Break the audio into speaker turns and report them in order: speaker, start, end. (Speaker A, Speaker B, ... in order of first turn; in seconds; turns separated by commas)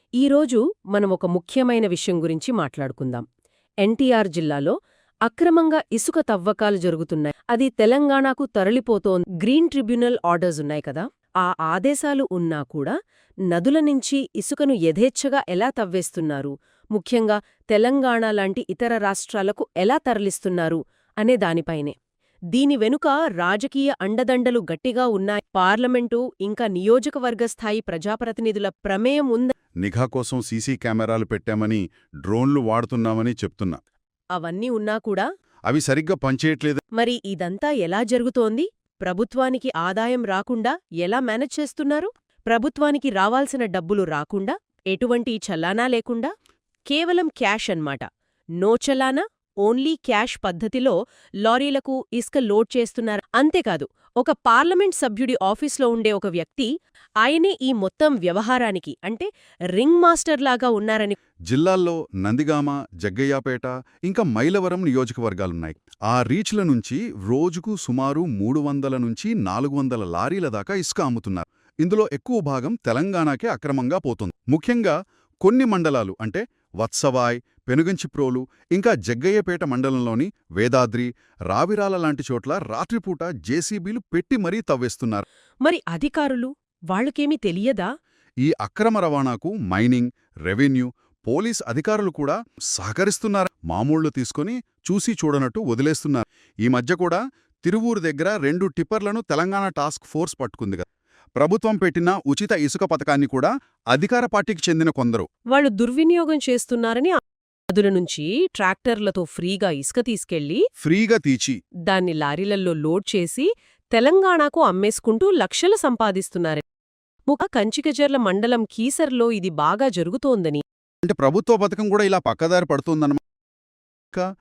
Speaker A: 0.2-3.2, Speaker A: 3.8-4.7, Speaker A: 5.2-12.9, Speaker A: 13.5-21.9, Speaker A: 22.5-29.5, Speaker B: 29.8-33.8, Speaker A: 34.3-35.3, Speaker B: 35.7-36.8, Speaker A: 37.0-46.3, Speaker A: 46.9-48.0, Speaker A: 48.6-56.7, Speaker A: 57.2-61.1, Speaker B: 61.5-85.2, Speaker A: 85.6-87.9, Speaker B: 88.4-100.8, Speaker B: 101.4-105.3, Speaker A: 105.5-110.6, Speaker B: 110.8-111.6, Speaker A: 111.9-116.6, Speaker A: 117.3-120.6, Speaker B: 121.0-123.2